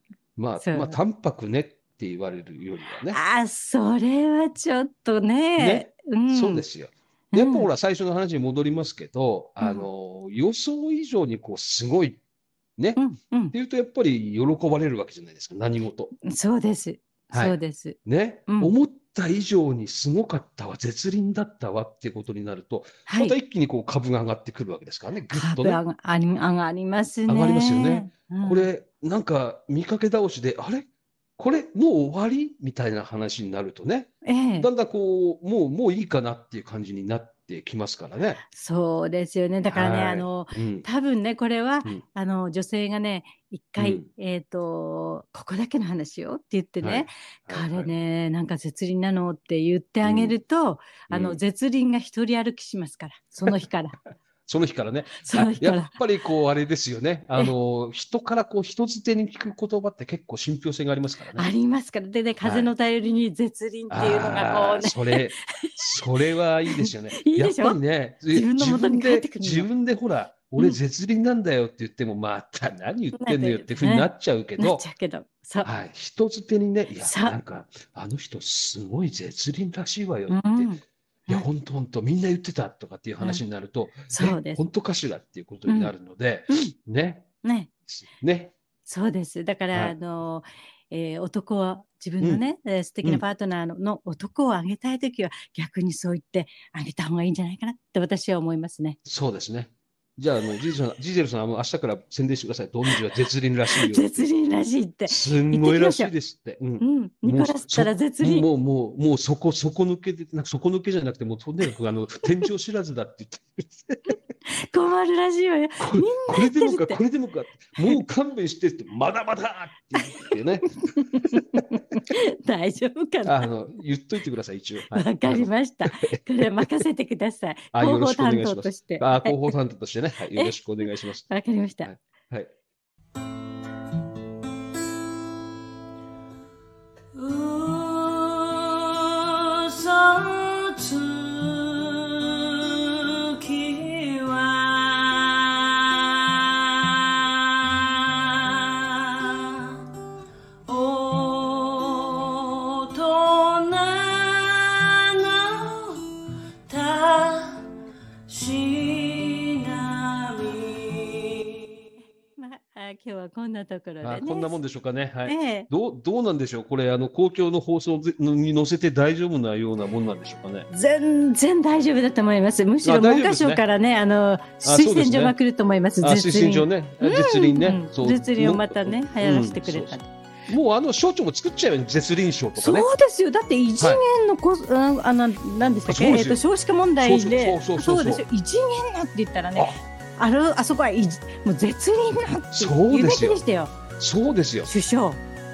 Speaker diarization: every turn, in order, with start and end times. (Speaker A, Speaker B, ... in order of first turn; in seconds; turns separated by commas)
Speaker A: 0.4-3.2, Speaker B: 0.6-1.0, Speaker B: 3.1-6.6, Speaker A: 5.6-12.2, Speaker B: 7.3-7.7, Speaker B: 9.6-9.9, Speaker B: 13.0-13.5, Speaker A: 13.5-16.1, Speaker B: 16.2-18.0, Speaker A: 17.3-25.8, Speaker B: 18.5-18.7, Speaker B: 23.1-23.4, Speaker B: 25.3-28.7, Speaker A: 27.3-30.9, Speaker A: 31.4-38.4, Speaker B: 34.2-34.7, Speaker B: 38.5-54.0, Speaker A: 39.7-40.9, Speaker A: 43.8-44.1, Speaker A: 46.8-47.9, Speaker A: 50.0-50.4, Speaker A: 51.1-51.4, Speaker A: 54.5-61.5, Speaker B: 55.2-56.0, Speaker B: 61.4-66.0, Speaker A: 62.4-62.7, Speaker A: 63.9-74.9, Speaker B: 66.7-67.8, Speaker B: 68.3-69.7, Speaker B: 73.1-75.7, Speaker A: 75.6-80.7, Speaker B: 77.0-77.4, Speaker B: 80.3-81.5, Speaker A: 81.3-87.3, Speaker B: 84.1-84.6, Speaker B: 85.7-85.9, Speaker B: 86.5-86.7, Speaker B: 87.4-87.7, Speaker A: 87.9-88.5, Speaker B: 88.9-99.0, Speaker A: 99.1-104.3, Speaker B: 103.8-106.1, Speaker A: 105.1-114.0, Speaker B: 106.8-108.5, Speaker B: 114.5-117.0, Speaker A: 115.8-121.4, Speaker B: 120.1-120.3, Speaker B: 120.9-123.5, Speaker A: 123.2-126.7, Speaker B: 124.9-129.5, Speaker A: 127.7-131.3, Speaker B: 131.3-131.9, Speaker A: 131.8-132.5, Speaker C: 137.1-149.8, Speaker C: 150.7-156.1, Speaker C: 156.7-157.6, Speaker C: 158.3-161.6, Speaker B: 162.4-164.6, Speaker A: 164.0-170.7, Speaker B: 165.3-165.7, Speaker B: 170.7-180.1, Speaker A: 172.8-173.6, Speaker A: 174.6-175.4, Speaker A: 176.0-180.0, Speaker A: 180.5-182.9, Speaker B: 182.6-193.7, Speaker A: 185.9-186.4, Speaker A: 187.0-188.2, Speaker A: 192.5-193.4, Speaker A: 193.9-194.7, Speaker B: 194.7-195.2